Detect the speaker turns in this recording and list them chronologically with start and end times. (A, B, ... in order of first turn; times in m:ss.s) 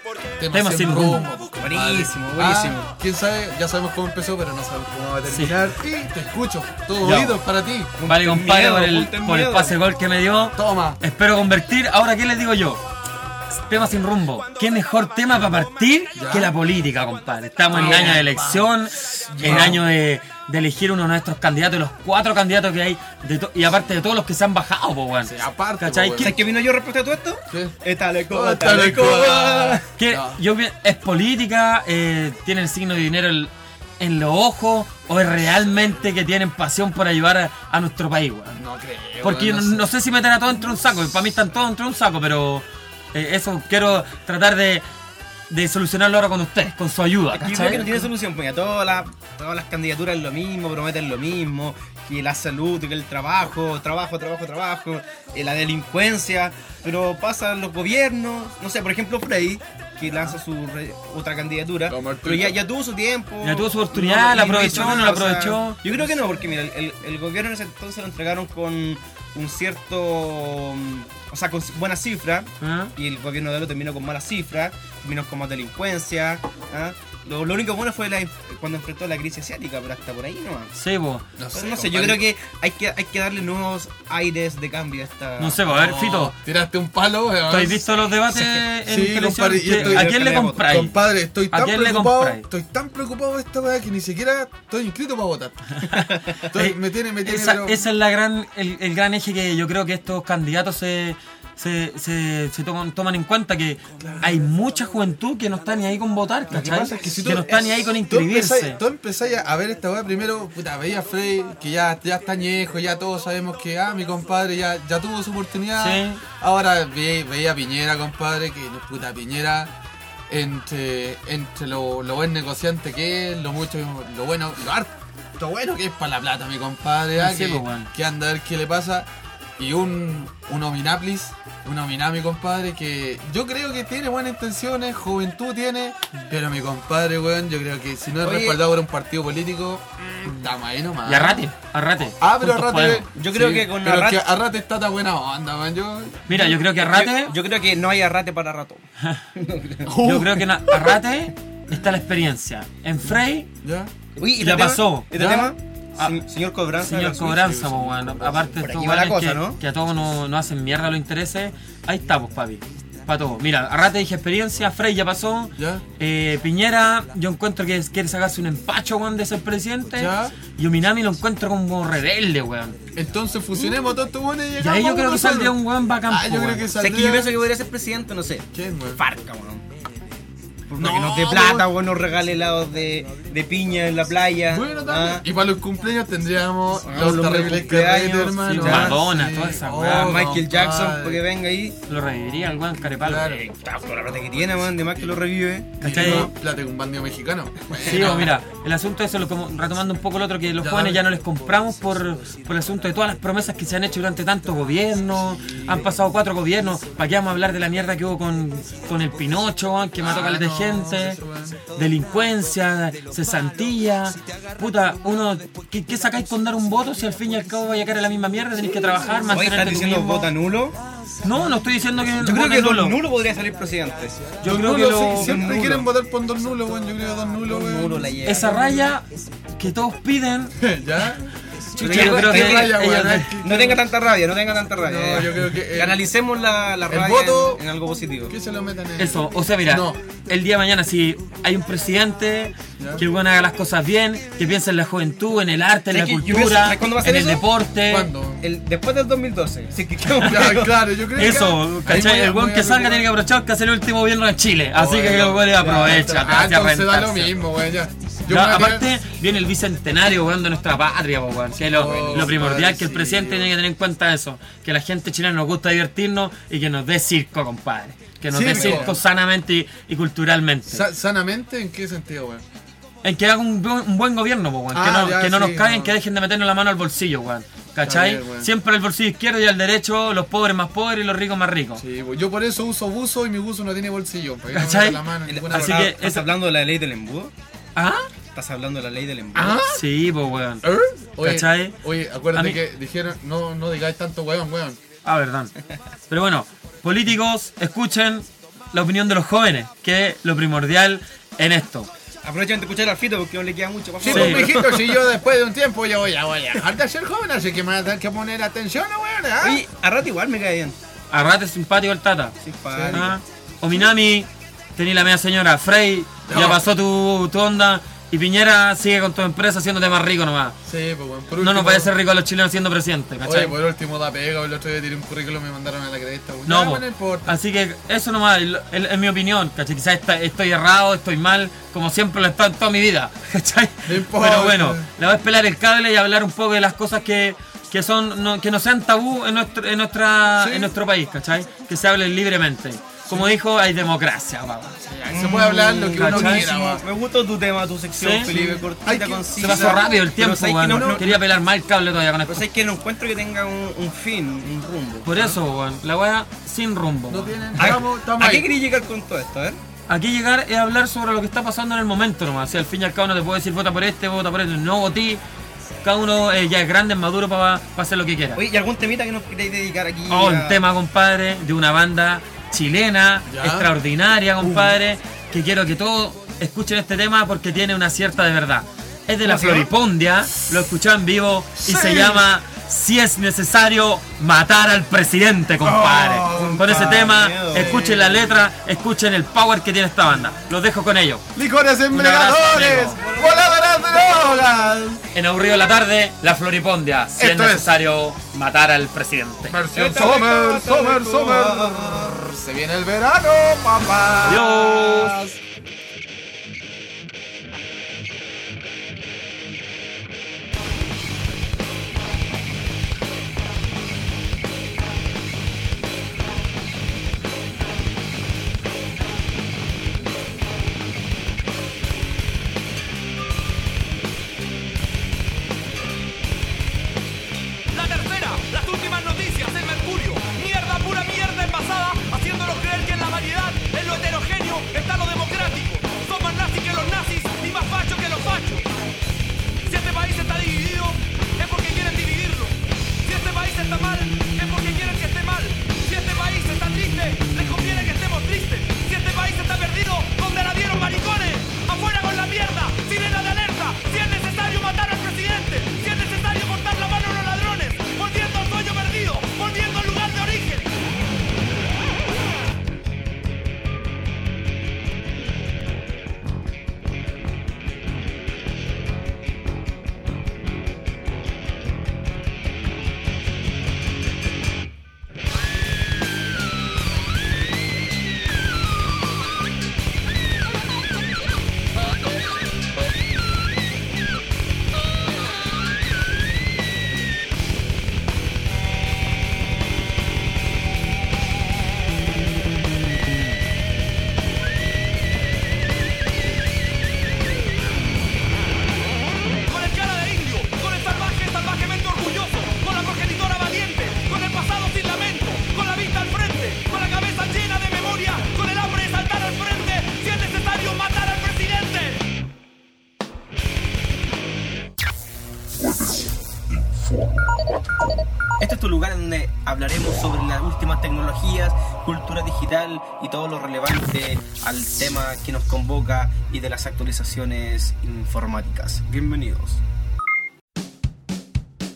0:00.4-0:07.9 A
0:00.5-0:01.3 B
0:01.6-0:02.9 C
0:05.3-0:05.6 B
0:07.0-0:07.4 B
0:08.0-0:09.8 C
0:08.0-0:12.8 B
0:10.5-0:11.0 A
0:13.7-0:26.4 B
0:16.1-0:16.5 A
0:17.7-0:19.8 A
0:17.7-0:18.2 C
0:19.4-0:19.8 C
0:25.2-0:26.4 A
0:26.2-0:29.8 C
0:27.5-0:27.8 A
0:28.3-0:30.4 A
0:30.0-0:38.6 B
0:38.5-0:39.9 A
0:39.2-0:44.8 B
0:45.5-0:48.0 B
0:47.3-1:20.7 C
1:01.9-1:02.6 A
1:03.4-1:05.8 B
1:04.5-1:05.2 A
1:12.6-1:12.9 B
1:20.7-1:21.2 B
1:21.4-1:22.2 A
1:21.5-1:25.6 C
1:25.4-1:26.3 B
1:25.7-1:28.0 A
1:27.5-1:31.0 B
1:28.8-1:35.8 A
1:29.7-1:30.7 C
1:31.5-1:32.4 B
1:35.8-1:48.8 B
1:36.4-1:37.8 A
1:44.0-1:44.4 A
1:46.5-1:59.7 A
1:55.8-1:56.2 B
2:00.3-2:21.5 A
2:07.2-2:07.9 B
2:18.2-2:18.6 C
2:21.0-2:23.1 B
2:22.2-2:26.6 A
2:23.2-2:24.2 C
2:26.3-2:27.3 B
2:26.6-2:29.9 C
2:29.8-2:31.0 A
2:30.0-2:33.5 B
2:33.6-2:33.9 A
2:34.2-2:37.4 C
2:34.4-2:35.1 B
2:35.1-2:35.5 A
2:36.8-2:52.8 B
2:37.0-2:38.6 A
2:38.6-2:39.6 C
2:45.6-2:45.8 A
2:49.9-2:50.3 A
2:52.9-2:57.3 A
2:54.6-2:56.7 B
2:56.8-2:59.6 C
2:58.5-2:59.0 A
3:00.7-3:05.2 C
3:00.8-3:01.7 A
3:04.5-3:11.2 A
3:06.8-3:09.0 C
3:08.5-3:10.2 B
3:09.9-3:11.8 C
3:11.9-3:13.5 B
3:13.0-3:13.5 A
3:13.5-3:16.3 C
3:15.8-3:16.3 B
3:15.8-3:18.4 A
3:17.8-3:18.2 C
3:17.8-3:40.3 B
3:20.6-3:21.1 A
3:25.1-3:26.0 A
3:30.0-3:31.6 A
3:39.3-3:40.8 C
3:41.2-3:43.0 B
3:41.3-3:41.6 A
3:42.2-3:45.9 C
3:44.4-3:45.3 B
3:44.4-3:48.1 A
3:47.4-3:48.9 C
3:48.2-3:49.0 B
3:49.6-3:50.5 B
3:50.6-3:53.8 A
3:51.8-3:53.4 B
3:51.8-3:58.3 C
3:54.8-3:56.0 A
3:56.9-3:57.6 A
3:58.3-4:00.0 A
3:59.0-4:08.1 B
4:02.8-4:03.0 A
4:05.9-4:07.5 C
4:07.8-4:08.4 A
4:08.4-4:10.8 C
4:10.1-4:13.1 A
4:11.2-4:17.4 B
4:14.7-4:18.9 A
4:18.3-4:30.9 B
4:21.6-4:23.5 A
4:21.8-4:22.3 C
4:28.3-4:29.0 A
4:28.4-4:28.9 C
4:30.7-4:32.4 A
4:33.0-4:41.8 B
4:34.7-4:36.0 A
4:37.8-4:38.5 A
4:41.8-4:45.9 A
4:44.5-4:46.2 B
4:45.2-4:47.3 C
4:47.8-4:48.1 B
4:48.3-4:49.6 C
4:49.3-4:49.8 A
4:49.6-4:50.7 B
4:50.6-4:54.8 A
4:51.2-4:51.8 B
4:52.3-4:52.6 B
4:55.0-4:55.5 B
4:56.1-5:01.9 B
5:02.2-5:05.0 C
5:04.0-5:09.6 A
5:04.1-5:04.5 B
5:09.4-5:10.8 C
5:11.1-5:12.3 B
5:12.4-5:13.2 C
5:12.7-5:13.1 A
5:12.9-5:20.6 B
5:16.3-5:16.6 A
5:20.6-5:21.9 A
5:21.4-5:23.6 B
5:23.2-5:27.4 A
5:26.5-5:44.8 B
5:33.8-5:34.9 A
5:40.4-5:40.7 A
5:43.1-5:43.3 A
5:44.8-5:46.8 A
5:45.1-5:51.2 C
5:46.0-5:46.5 B
5:48.0-5:48.3 B
5:48.2-5:50.0 A
5:49.4-5:52.4 B
5:50.6-5:51.2 A
5:52.3-5:55.4 C
5:55.0-5:57.8 B
5:57.1-5:58.5 A
5:57.6-5:59.6 C
5:59.9-6:05.2 B
6:05.8-6:08.4 B
6:08.4-6:10.6 C
6:10.1-6:31.2 B
6:13.3-6:13.7 A
6:14.4-6:14.8 A
6:19.2-6:19.7 C
6:21.6-6:22.3 A
6:25.6-6:28.4 A
6:26.3-6:27.8 C
6:31.3-6:35.0 A
6:31.9-6:33.0 B
6:33.0-6:34.3 C
6:35.1-6:39.6 B
6:37.2-6:37.8 A
6:39.5-6:45.4 A
6:39.7-6:42.2 C
6:44.2-6:45.2 B
7:07.7-7:18.6 D
7:10.2-7:10.8 C
7:11.8-7:13.2 C
7:13.9-7:18.4 C
7:19.7-7:22.5 D
7:19.8-7:20.6 C
7:23.0-7:40.7 D
7:24.5-7:25.1 C
7:27.2-7:28.1 C
7:30.7-7:31.5 C
7:33.7-7:34.2 C
7:35.4-7:36.2 C
7:37.4-7:37.8 C
8:19.5-8:32.0 D
8:23.9-8:24.2 C
8:26.5-8:26.7 C
8:38.4-8:49.6 C